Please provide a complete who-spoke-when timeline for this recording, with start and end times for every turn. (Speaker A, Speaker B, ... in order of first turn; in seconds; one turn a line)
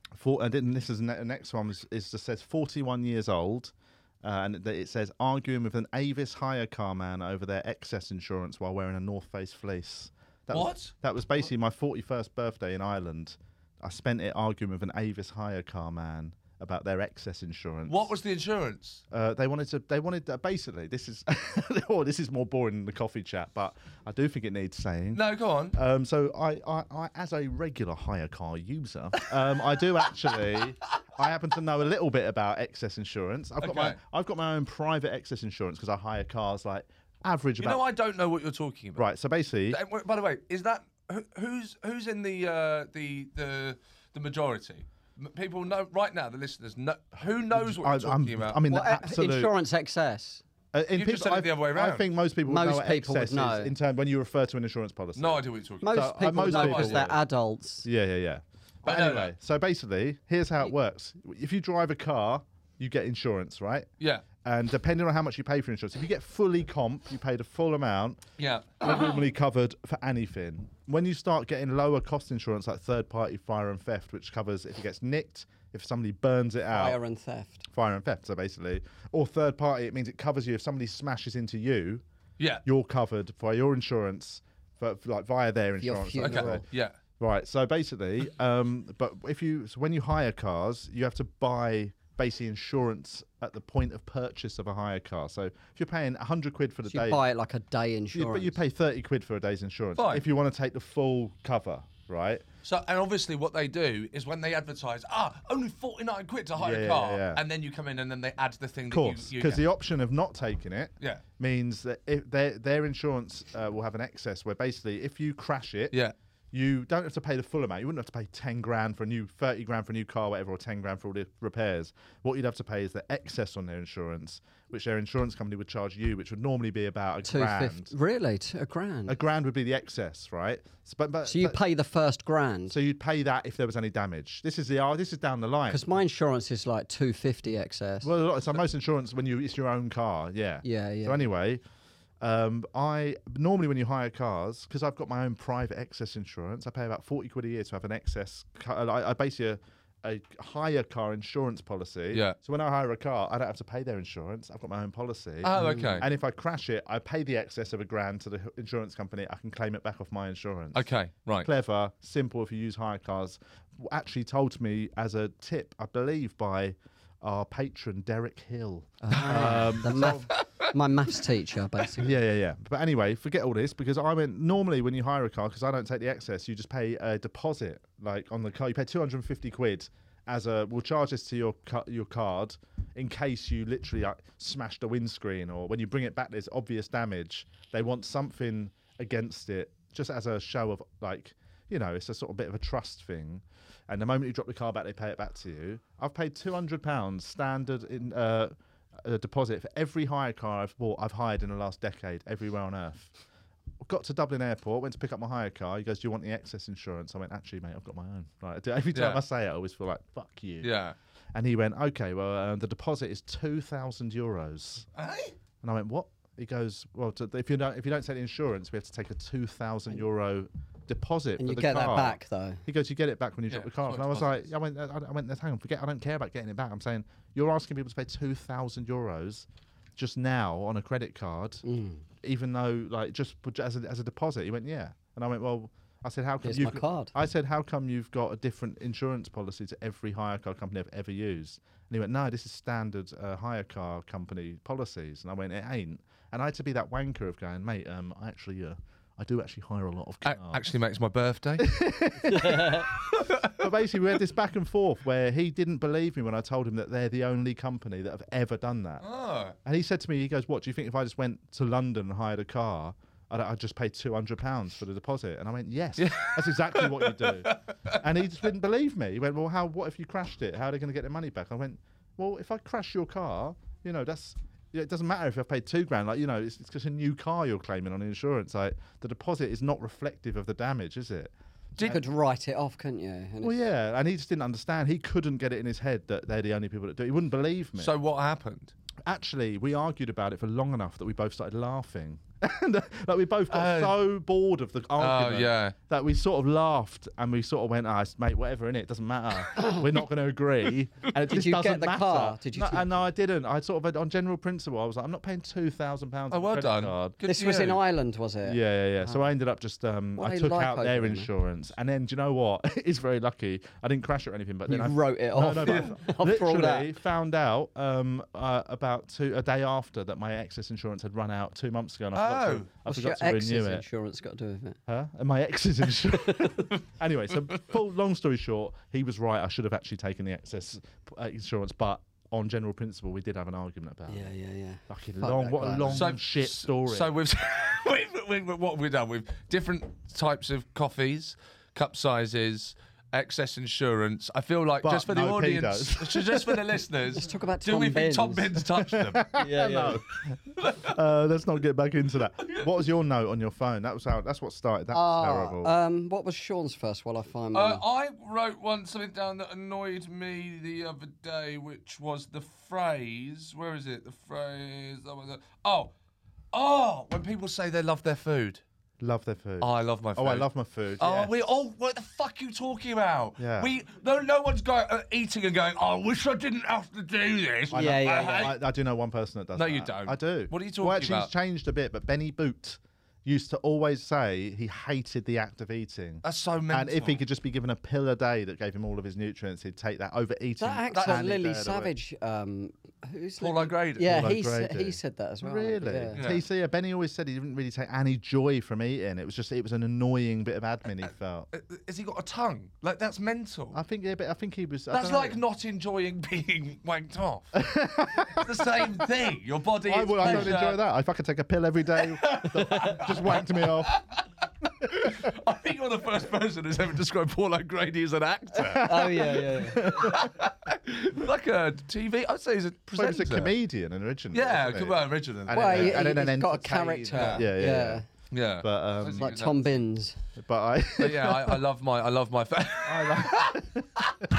Speaker A: 0.1-18.1
Speaker B: 10.5-10.9
Speaker B: 17.9-19.0
Speaker A: 19.1-37.8
Speaker B: 25.1-25.8
Speaker B: 33.6-34.0
Speaker B: 37.6-39.1
Speaker A: 39.0-39.8
Speaker B: 39.7-48.6
Speaker A: 47.5-49.5
Speaker C: 48.7-50.4
Speaker A: 50.7-57.2
Speaker B: 50.9-52.1
Speaker C: 52.5-53.7
Speaker B: 55.2-57.1
Speaker C: 55.8-57.9
Speaker A: 57.8-63.9
Speaker B: 58.8-59.3
Speaker B: 64.0-64.2
Speaker A: 64.4-68.2
Speaker B: 68.4-69.2
Speaker A: 68.8-77.0
Speaker C: 76.7-77.7
Speaker A: 77.7-82.0
Speaker B: 82.4-82.6
Speaker A: 82.7-86.6
Speaker C: 85.8-86.7
Speaker B: 86.2-87.0
Speaker A: 87.2-97.2
Speaker C: 96.9-98.6
Speaker A: 98.1-102.5
Speaker B: 100.0-100.3
Speaker B: 102.6-109.6
Speaker A: 106.6-107.4
Speaker A: 108.9-116.0
Speaker B: 111.0-111.2
Speaker A: 116.5-127.9
Speaker C: 127.2-129.2
Speaker A: 129.1-131.6
Speaker C: 131.2-132.8
Speaker A: 132.7-135.9
Speaker C: 135.7-138.1
Speaker A: 138.0-141.6
Speaker C: 140.6-141.2
Speaker A: 142.2-170.3
Speaker B: 152.1-152.4
Speaker B: 155.4-156.1
Speaker C: 155.6-156.0
Speaker B: 160.8-161.5
Speaker C: 169.0-172.1
Speaker B: 169.2-170.4
Speaker A: 172.0-203.1
Speaker A: 203.8-210.7
Speaker B: 208.9-209.2
Speaker B: 210.6-210.9
Speaker A: 211.3-214.9
Speaker B: 214.9-215.4
Speaker A: 215.6-231.6
Speaker C: 221.4-222.6
Speaker B: 223.5-224.5
Speaker C: 231.7-232.0
Speaker A: 232.2-250.7
Speaker C: 236.4-237.1
Speaker B: 250.2-253.6
Speaker A: 251.6-252.9
Speaker A: 253.4-259.1
Speaker B: 259.0-259.6
Speaker A: 259.6-282.0
Speaker B: 266.0-268.0
Speaker C: 281.8-283.6
Speaker A: 283.4-287.9
Speaker B: 287.8-288.7
Speaker A: 289.1-307.2
Speaker B: 293.5-294.0
Speaker B: 295.0-295.8
Speaker C: 301.3-302.9
Speaker B: 306.3-307.8
Speaker C: 307.2-309.3
Speaker A: 308.4-323.9
Speaker C: 310.2-311.3
Speaker C: 314.7-316.9
Speaker B: 315.6-315.9
Speaker B: 322.1-322.7
Speaker C: 322.9-324.8
Speaker A: 324.9-334.3
Speaker C: 334.1-336.1
Speaker A: 334.9-337.1
Speaker B: 335.9-349.3
Speaker A: 344.8-346.7
Speaker C: 347.1-348.6
Speaker A: 348.8-355.7
Speaker C: 349.4-350.0
Speaker B: 350.6-350.9
Speaker B: 352.4-352.7
Speaker C: 354.9-357.8
Speaker B: 357.5-365.9
Speaker B: 366.5-368.6
Speaker A: 369.0-371.3
Speaker B: 369.6-370.5
Speaker B: 371.0-378.6
Speaker A: 373.4-373.7
Speaker C: 377.7-378.6
Speaker A: 377.7-391.9
Speaker B: 379.6-381.3
Speaker B: 386.2-387.2
Speaker C: 390.6-396.2
Speaker B: 390.9-391.3
Speaker B: 393.4-394.3
Speaker A: 394.1-401.5
Speaker B: 396.1-396.4
Speaker B: 401.5-403.8
Speaker A: 403.7-405.4
Speaker B: 404.9-407.6
Speaker A: 407.5-408.9
Speaker B: 408.3-410.8
Speaker A: 409.9-414.0
Speaker C: 410.2-410.5
Speaker B: 412.0-414.3
Speaker A: 414.8-415.3
Speaker B: 414.8-423.5
Speaker A: 418.6-420.3
Speaker C: 418.8-420.1
Speaker A: 422.9-428.0
Speaker B: 424.3-426.1
Speaker C: 425.5-428.0
Speaker B: 427.1-427.5
Speaker B: 428.3-429.8
Speaker A: 428.6-429.4
Speaker C: 429.1-430.2
Speaker A: 430.4-431.6
Speaker B: 431.0-434.2
Speaker A: 432.8-434.3